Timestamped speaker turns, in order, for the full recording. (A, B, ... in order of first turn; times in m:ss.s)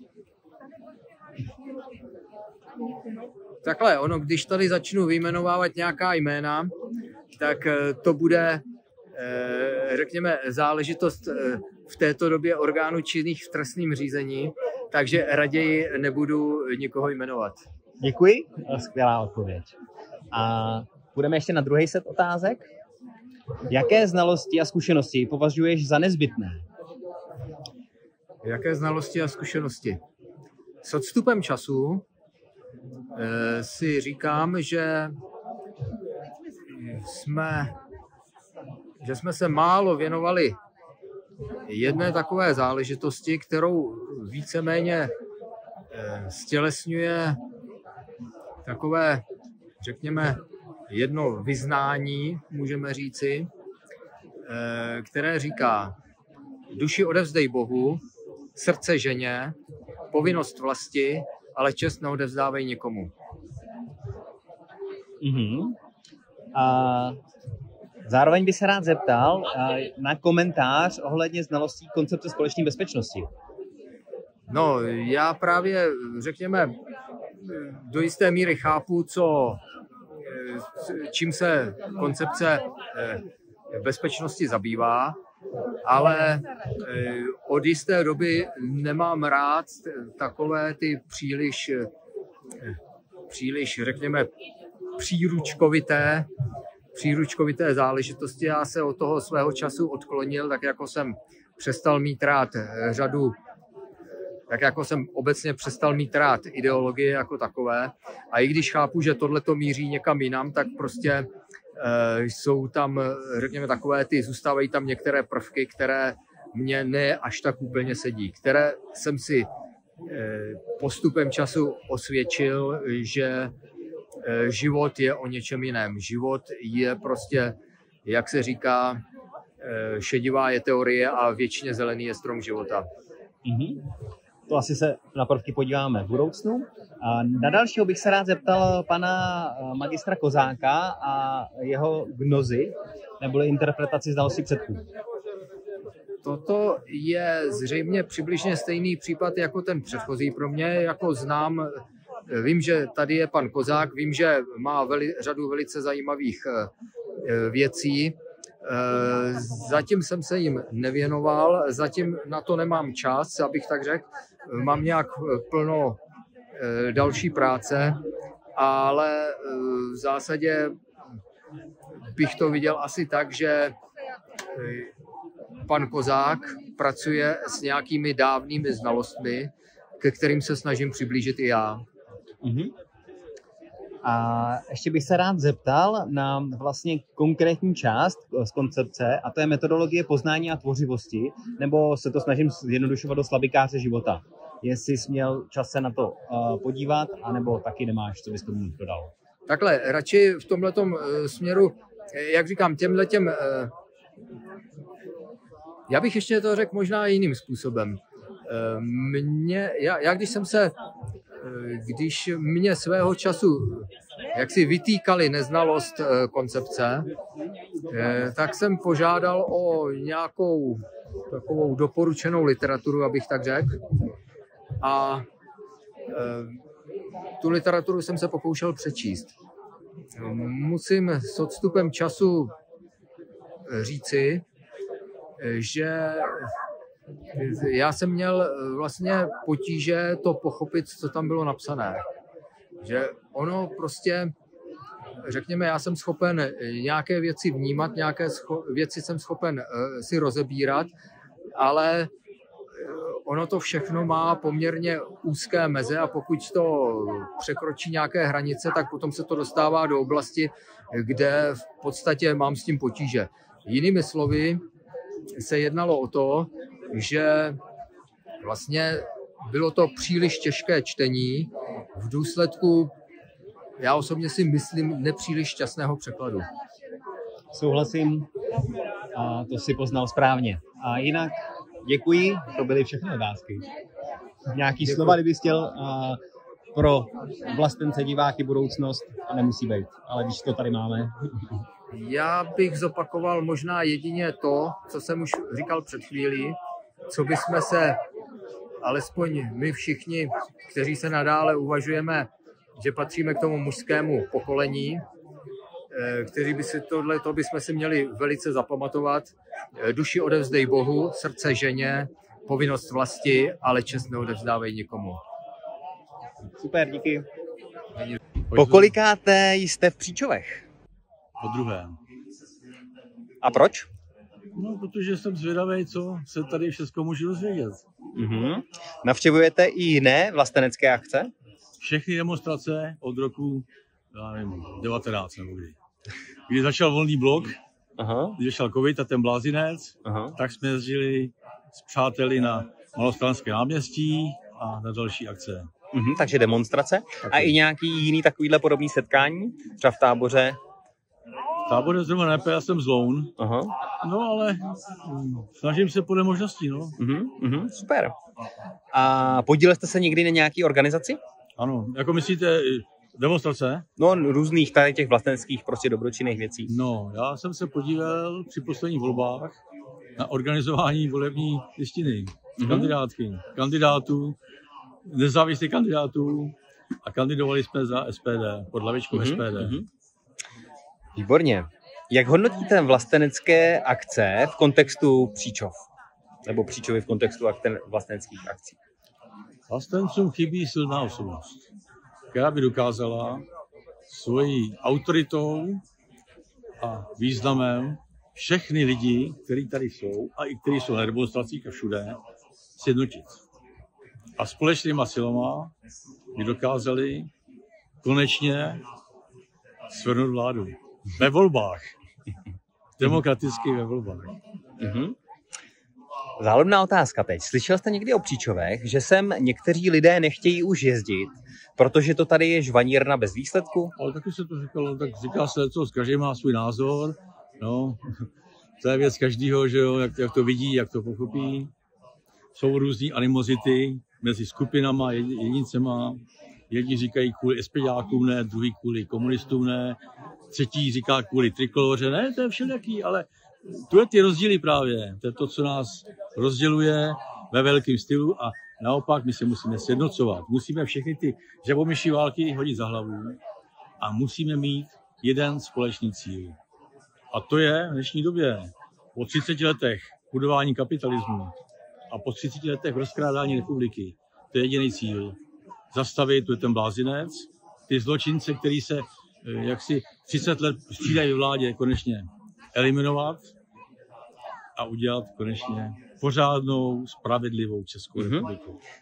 0:03.6-0:06.7 A
0:07.3-0:08.6 A
0:09.1-0:17.6 A
0:18.0-0:19.7 B
0:20.3-0:22.7 B
0:23.7-0:26.6 B
0:28.4-0:30.0 A
0:30.8-0:32.0 A
0:33.2-0:35.1 A
0:36.7-0:37.8 A
0:39.0-0:40.6 A
0:41.7-0:45.1 A
0:45.9-0:47.4 A
0:48.6-0:49.2 A
0:49.8-0:53.5 A
0:54.5-0:56.0 A
0:56.7-0:58.0 A
0:58.6-0:59.6 A
1:00.1-1:03.1 A
1:05.2-1:05.8 B
1:06.5-1:07.2 B
1:08.0-1:13.3 B
1:14.5-1:16.8 A
1:17.4-1:19.6 A
1:20.2-1:25.2 A
1:25.8-1:31.9 A
1:33.3-1:34.3 A
1:35.0-1:36.3 A
1:37.0-1:43.4 A
1:44.5-1:59.5 A
2:00.0-2:03.5 A
2:04.2-2:09.0 A
2:09.6-2:12.9 A
2:13.5-2:13.8 B
2:14.5-2:24.8 B
2:26.2-2:36.7 A
2:37.2-2:46.0 A
2:46.6-2:48.0 A
2:48.6-2:50.8 A
2:52.1-2:53.8 A
2:54.6-2:54.9 A
2:55.7-3:01.8 A
3:02.4-3:02.7 B
3:04.0-3:19.1 B
3:19.5-3:23.7 A
3:25.9-3:30.8 A
3:31.4-3:37.1 A
3:37.9-3:43.8 A
3:44.8-3:45.2 A
3:46.1-3:46.6 A
3:47.4-3:49.3 A
3:50.2-3:52.5 A
3:53.7-3:54.4 A
3:55.4-3:56.5 A
3:57.4-4:02.0 A
4:02.8-4:04.3 A
4:05.2-4:10.9 A
4:11.6-4:12.1 A
4:12.8-4:24.6 A
4:25.4-4:27.6 A
4:28.4-4:32.9 A
4:33.8-4:36.5 A
4:37.5-4:38.3 B
4:39.1-4:43.7 B
4:44.5-4:46.2 B
4:44.8-4:45.2 A
4:46.7-4:51.6 B
4:51.9-4:56.6 A
4:57.1-4:58.0 A
4:58.8-5:05.0 A
5:05.9-5:15.2 A
5:16.6-5:17.3 B
5:18.5-5:19.0 C
5:18.5-5:20.6 B
5:21.4-5:22.0 C
5:23.4-5:23.9 B
5:24.6-5:27.8 C
5:28.2-5:31.3 B
5:31.8-5:35.8 C
5:36.5-5:37.6 C
5:38.0-5:38.4 B
5:38.4-5:45.7 C
5:40.0-5:40.4 B
5:45.9-5:50.6 B
5:47.2-5:47.5 C
5:51.7-5:53.3 C
5:53.4-5:53.7 B
5:54.0-5:57.0 C
5:57.0-5:58.1 B
5:58.9-6:01.2 B
6:01.6-6:03.9 C
6:04.0-6:06.7 B
6:06.7-6:09.6 C
6:10.2-6:14.4 C
6:12.6-6:13.0 B
6:15.1-6:19.8 C
6:19.1-6:19.9 B
6:21.2-6:25.8 B
6:26.5-6:28.8 B
6:29.7-6:31.7 C
6:32.3-6:33.4 C
6:34.1-6:35.8 C
6:36.8-6:42.2 C
6:42.8-6:43.4 C
6:44.4-6:45.7 C
6:46.4-6:47.3 C
6:48.0-6:48.8 C
6:49.9-6:51.9 C
6:53.0-6:54.4 C
6:54.8-6:55.2 B
6:56.4-7:03.9 B
7:04.0-7:08.2 C
7:08.8-7:11.7 C
7:12.6-7:20.0 C
7:20.5-7:33.4 C
7:34.0-7:36.6 C
7:37.3-7:41.5 C
7:42.1-7:45.4 C
7:45.9-7:53.5 C
7:54.8-7:58.8 C
7:58.2-7:58.5 B